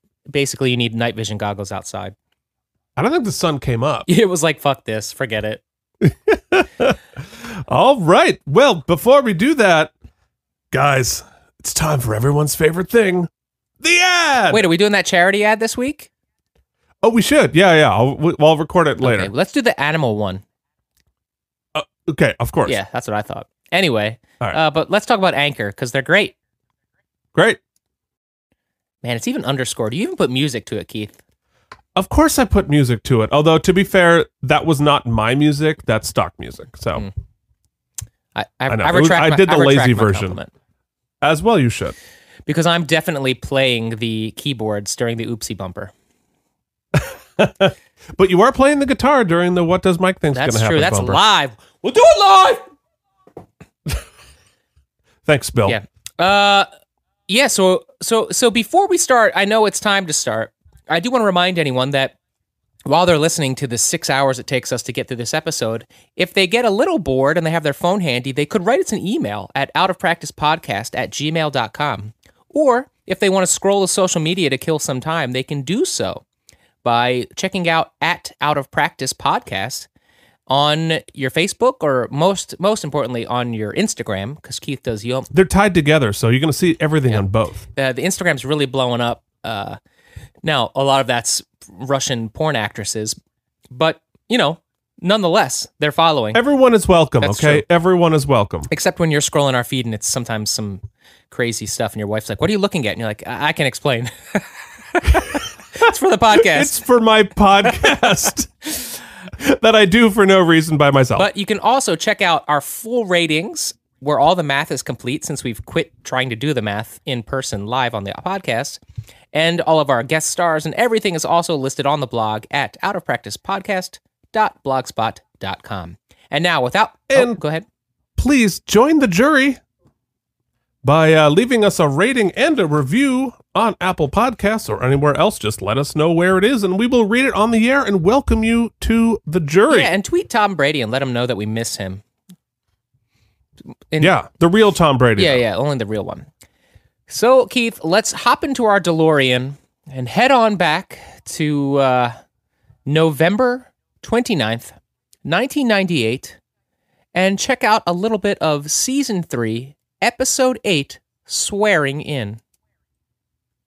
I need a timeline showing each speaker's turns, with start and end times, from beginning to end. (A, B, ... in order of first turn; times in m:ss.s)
0:00.3-0:02.2 A
0:03.0-0:04.1 B
0:04.1-0:05.6 A
0:06.0-0:09.9 B
0:10.7-0:13.3 B
0:13.8-0:14.6 B
0:14.5-0:16.1 A
0:17.0-0:19.3 B
0:19.0-0:20.4 A
0:21.7-0:22.8 B
0:22.7-0:26.3 A
0:27.3-0:27.6 B
0:29.0-0:31.2 A
0:32.0-0:37.1 B
0:38.4-0:40.5 A
0:38.7-0:40.4 B
0:41.2-0:42.0 B
0:42.5-0:45.9 A
0:47.0-0:51.2 B
0:50.3-0:52.6 A
0:55.3-0:55.8 B
0:55.7-0:56.7 A
0:57.3-1:02.2 A
1:02.9-1:16.2 A
1:16.8-1:19.9 A
1:20.5-1:25.3 A
1:25.3-1:27.6 B
1:27.1-1:29.8 A
1:30.4-1:33.2 A
1:33.7-1:36.4 A
1:36.3-1:38.7 B
1:37.2-1:37.6 A
1:38.7-1:44.4 A
1:45.0-1:46.8 A
1:46.3-1:48.8 B
1:49.4-1:51.3 B
1:51.2-1:58.8 A
1:59.3-2:07.6 A
2:07.1-2:07.4 B
2:08.2-2:09.6 B
2:10.8-2:19.9 B
2:19.7-2:22.0 A
2:23.9-2:24.2 A
2:24.0-2:25.5 B
2:25.2-2:26.3 A
2:27.1-2:32.2 A
2:32.9-2:36.4 A
2:37.2-2:42.4 A